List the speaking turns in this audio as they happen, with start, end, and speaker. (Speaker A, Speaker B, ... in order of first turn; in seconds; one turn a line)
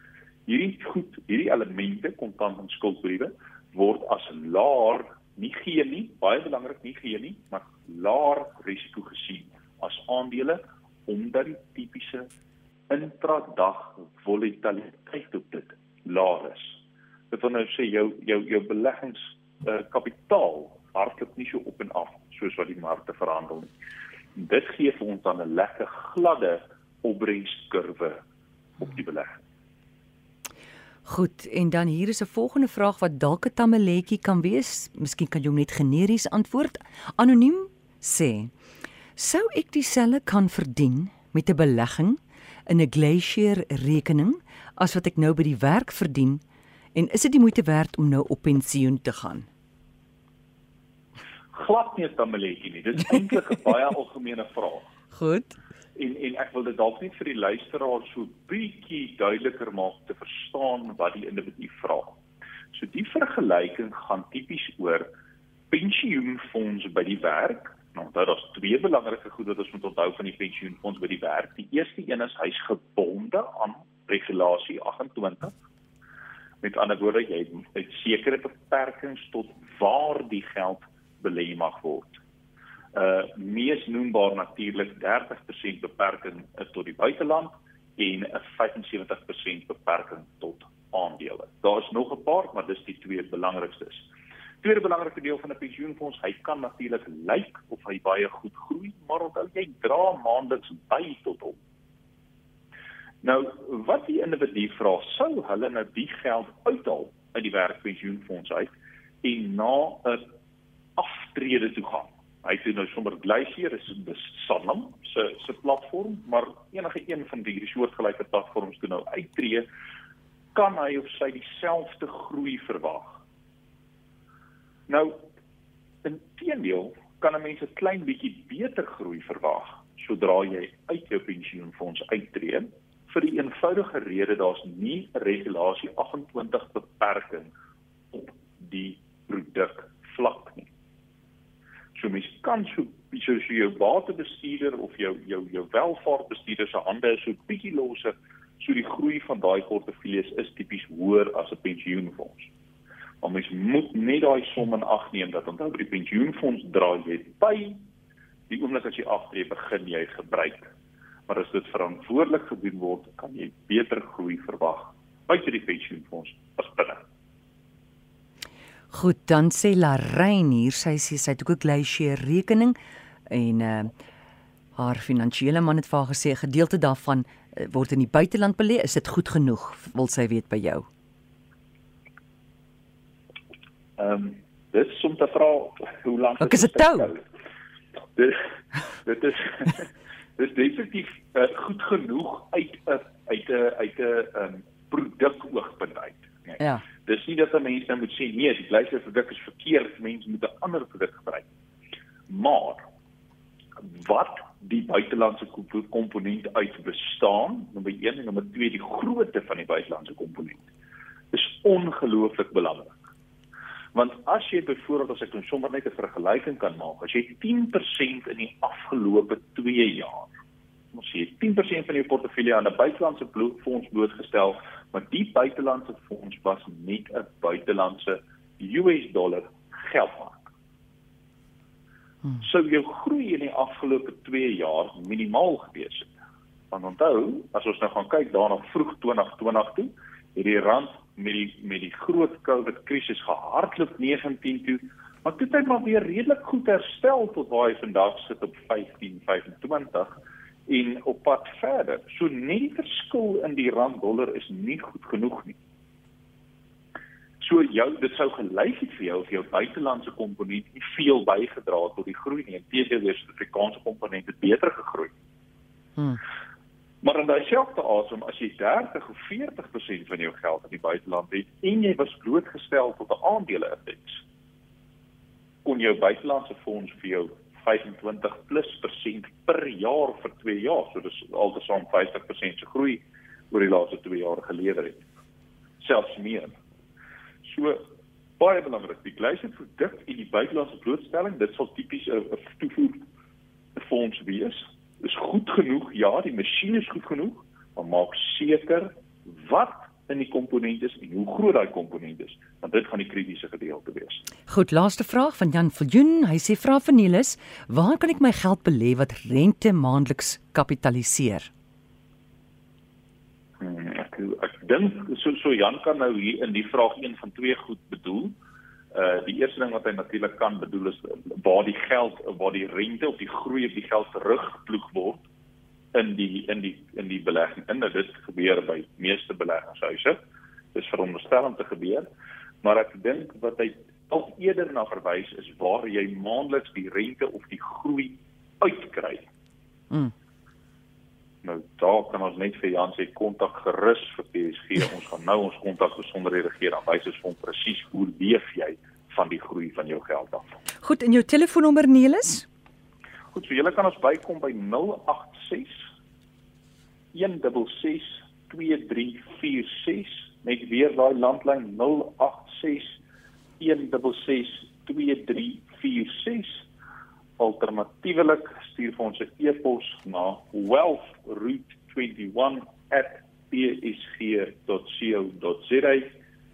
Speaker A: 0.5-12.3
Speaker A: 12.9-16.8
Speaker A: 17.3-23.7
Speaker A: 24.4-28.2
Speaker A: 28.8-29.4
Speaker B: 31.1-38.5
Speaker B: 39.2-46.4
Speaker B: 47.0-49.5
Speaker A: 51.5-54.9
Speaker B: 55.1-55.6
Speaker A: 56.0-62.2
Speaker A: 62.7-65.1
Speaker A: 65.7-75.5
Speaker A: 76.6-82.2
Speaker A: 82.9-94.1
Speaker A: 94.6-101.6
Speaker A: 103.2-108.7
Speaker A: 109.2-110.2
Speaker A: 111.0-119.7
Speaker A: 120.5-123.2
Speaker A: 124.9-125.2
Speaker A: 126.0-137.5
Speaker A: 138.1-140.7
Speaker A: 141.9-152.5
Speaker A: 153.2-157.8
Speaker A: 158.5-160.7
Speaker A: 161.3-167.1
Speaker B: 168.9-172.8
Speaker B: 173.3-173.9
Speaker B: 174.8-180.9
Speaker A: 184.0-187.2
Speaker B: 186.4-187.1
Speaker A: 188.2-201.5
Speaker B: 196.6-196.8
Speaker A: 202.3-202.8
Speaker A: 203.8-210.7
Speaker A: 211.3-213.1
Speaker A: 213.9-220.3
Speaker A: 220.9-230.5
Speaker A: 232.4-236.1
Speaker A: 236.7-250.2
Speaker A: 250.7-255.6
Speaker A: 257.4-265.1
Speaker A: 267.0-274.2
Speaker A: 275.6-285.1
Speaker A: 285.8-286.5
Speaker A: 287.4-287.8
Speaker A: 288.4-293.0
Speaker A: 293.8-304.2
Speaker B: 304.5-311.5
Speaker A: 313.6-318.4
Speaker A: 318.9-325.2
Speaker A: 325.9-330.2
Speaker A: 330.7-332.1
Speaker A: 332.6-339.3
Speaker A: 341.4-350.5
Speaker B: 350.8-352.5
Speaker A: 353.3-355.8
Speaker A: 357.1-363.0
Speaker A: 363.6-366.6
Speaker A: 367.4-376.1